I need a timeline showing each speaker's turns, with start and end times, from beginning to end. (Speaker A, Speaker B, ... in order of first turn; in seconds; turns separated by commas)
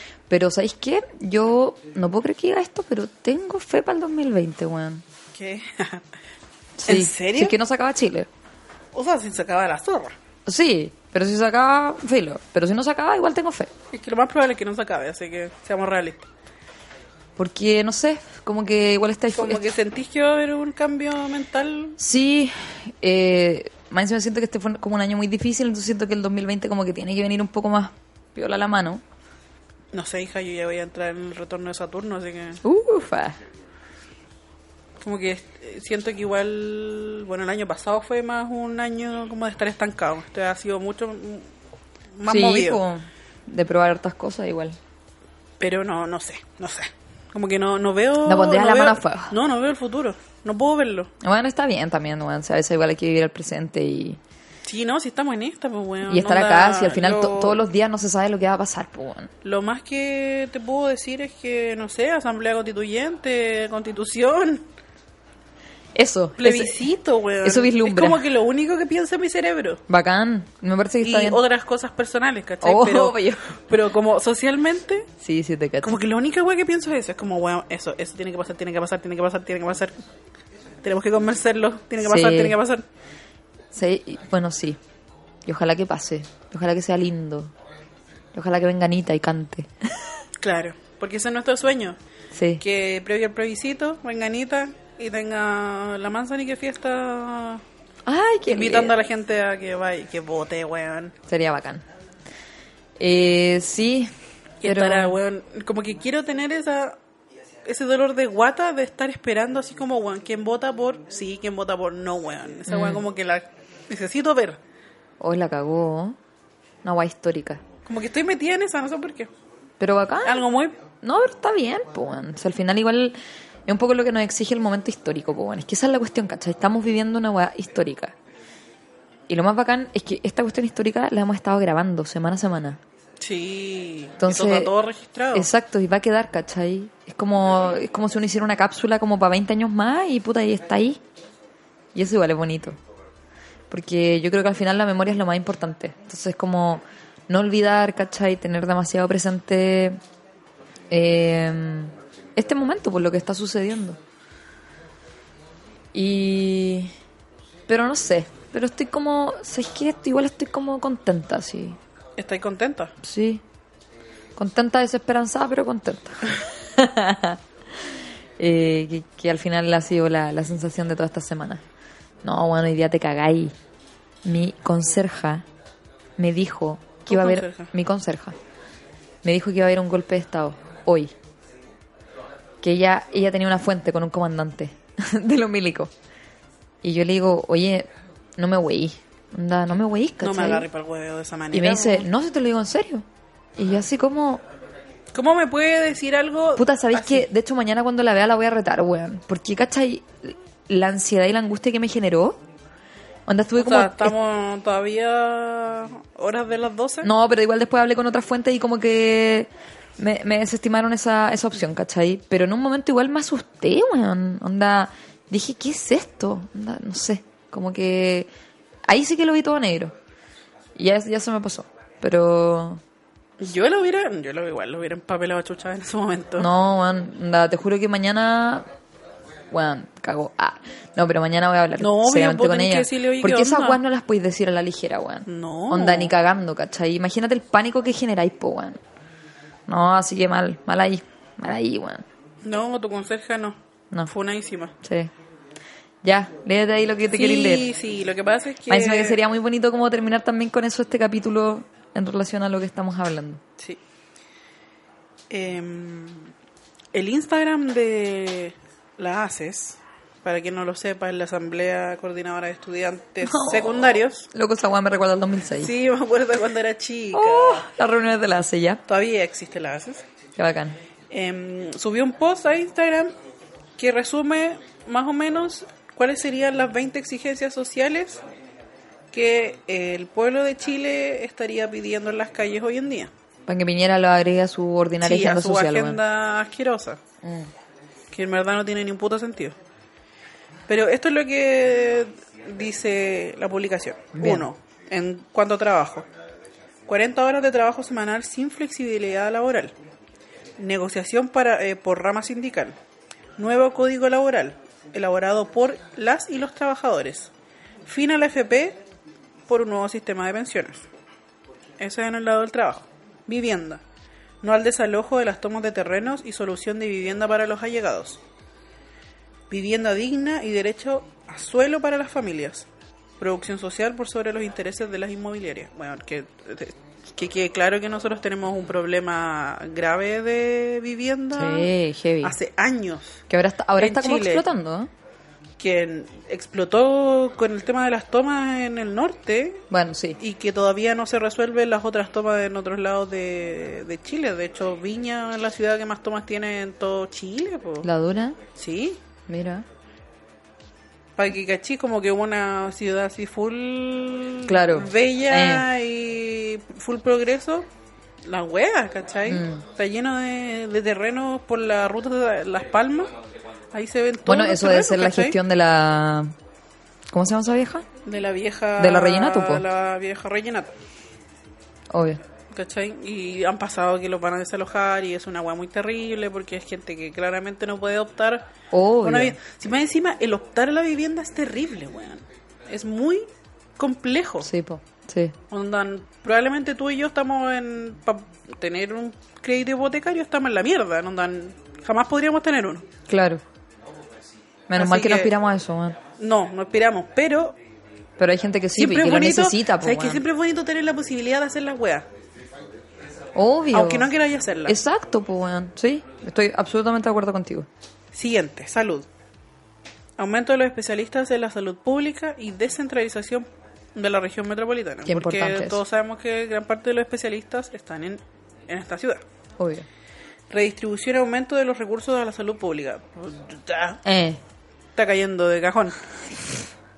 Speaker A: 0.3-5.0, Speaker B: 5.3-6.0, Speaker A: 6.8-8.3, Speaker B: 6.8-7.5, Speaker B: 8.9-10.1, Speaker A: 10.4-13.7, Speaker B: 13.9-16.3, Speaker A: 17.4-19.6, Speaker B: 19.3-22.0, Speaker A: 22.0-29.0, Speaker B: 29.9-32.6, Speaker A: 32.6-33.4, Speaker B: 35.0-41.5, Speaker B: 42.2-42.8, Speaker A: 42.2-44.8, Speaker B: 45.6-51.1, Speaker A: 48.2-49.4, Speaker A: 51.2-54.2, Speaker B: 54.6-57.6, Speaker A: 56.0-59.3, Speaker B: 59.4-64.6, Speaker A: 65.9-66.8, Speaker B: 66.4-69.8, Speaker A: 67.4-68.2, Speaker A: 69.9-71.4, Speaker B: 71.0-75.1, Speaker A: 72.6-73.5, Speaker A: 75.2-76.0, Speaker B: 75.8-79.9, Speaker B: 80.8-82.8, Speaker A: 82.0-82.6, Speaker A: 83.7-84.8, Speaker A: 85.5-87.5, Speaker A: 88.3-90.2, Speaker B: 90.4-92.0, Speaker A: 92.3-92.6, Speaker B: 92.6-97.6, Speaker A: 98.0-98.9, Speaker B: 98.5-101.1, Speaker A: 101.3-101.8, Speaker A: 103.0-104.1, Speaker B: 104.6-107.0, Speaker A: 104.6-105.2, Speaker B: 107.6-114.6, Speaker A: 112.7-113.0, Speaker A: 115.2-116.2, Speaker A: 116.8-117.6, Speaker B: 117.8-119.3, Speaker A: 119.8-120.4, Speaker B: 120.2-120.7, Speaker A: 121.0-123.2, Speaker A: 123.7-128.1, Speaker A: 129.3-132.8, Speaker B: 133.2-135.5, Speaker A: 134.2-134.7, Speaker A: 135.3-141.0, Speaker A: 141.9-142.8, Speaker A: 143.7-150.0, Speaker A: 150.9-154.0, Speaker A: 155.9-156.9, Speaker A: 157.7-161.8, Speaker B: 162.2-162.9, Speaker A: 163.0-163.4, Speaker A: 164.3-167.8, Speaker A: 168.4-171.6, Speaker A: 172.2-173.5, Speaker A: 174.2-175.4, Speaker A: 176.2-178.4, Speaker B: 177.1-177.7, Speaker A: 179.2-181.1, Speaker A: 182.6-185.9, Speaker A: 186.8-190.7, Speaker B: 190.2-192.1, Speaker A: 191.5-193.0, Speaker A: 193.6-194.4, Speaker B: 195.1-197.3, Speaker A: 196.6-202.4, Speaker A: 203.3-204.1, Speaker B: 203.6-207.1, Speaker A: 207.0-218.3, Speaker A: 218.9-219.9, Speaker A: 220.7-222.8, Speaker B: 223.4-226.5, Speaker A: 226.4-228.7, Speaker A: 229.5-238.8, Speaker B: 231.8-233.8, Speaker B: 235.3-236.1, Speaker A: 239.7-242.1, Speaker B: 242.4-244.7, Speaker A: 244.8-245.1, Speaker A: 246.0-247.7, Speaker B: 247.1-249.2, Speaker A: 248.7-253.4, Speaker B: 255.3-256.3, Speaker B: 256.9-264.3, Speaker A: 263.2-265.7, Speaker B: 265.6-267.6, Speaker A: 267.1-268.8, Speaker B: 268.9-270.0, Speaker A: 270.4-270.8, Speaker B: 271.1-273.1, Speaker B: 273.8-278.2, Speaker B: 279.1-283.1, Speaker A: 283.5-286.0, Speaker B: 285.0-287.0, Speaker A: 287.2-287.5, Speaker B: 288.1-289.6, Speaker B: 290.7-296.1, Speaker A: 294.1-294.5, Speaker B: 296.9-299.7, Speaker B: 300.6-302.8, Speaker B: 303.4-307.3, Speaker B: 307.9-308.8, Speaker B: 309.5-310.8, Speaker B: 311.8-313.8, Speaker B: 314.4-318.2, Speaker B: 319.5-322.7, Speaker B: 323.2-331.7, Speaker A: 331.3-332.4, Speaker B: 332.2-333.2, Speaker A: 333.3-334.9, Speaker B: 333.8-334.4, Speaker B: 335.6-339.6, Speaker A: 339.7-340.2, Speaker B: 340.2-347.9, Speaker A: 347.8-348.4, Speaker B: 348.5-349.0, Speaker A: 349.3-349.6, Speaker B: 351.2-357.7, Speaker A: 354.4-355.7, Speaker B: 358.2-363.1, Speaker A: 359.3-359.6, Speaker B: 363.7-365.4, Speaker A: 364.2-366.3, Speaker A: 367.1-367.9, Speaker B: 368.0-370.7, Speaker A: 368.8-369.6, Speaker A: 371.9-372.2, Speaker B: 372.5-378.4, Speaker A: 378.7-379.4, Speaker B: 379.0-383.2, Speaker B: 383.8-384.5, Speaker A: 384.4-385.4, Speaker B: 385.5-392.9, Speaker A: 393.1-393.4, Speaker A: 394.7-396.0, Speaker B: 394.7-395.3, Speaker B: 396.2-397.6, Speaker A: 398.2-400.2, Speaker B: 398.8-402.1, Speaker A: 403.3-404.1, Speaker B: 403.7-404.8, Speaker A: 404.6-407.7, Speaker B: 408.1-409.1, Speaker B: 410.2-419.2, Speaker A: 415.1-415.8, Speaker A: 419.6-419.9, Speaker B: 420.5-424.0, Speaker A: 424.0-424.4, Speaker B: 424.9-426.0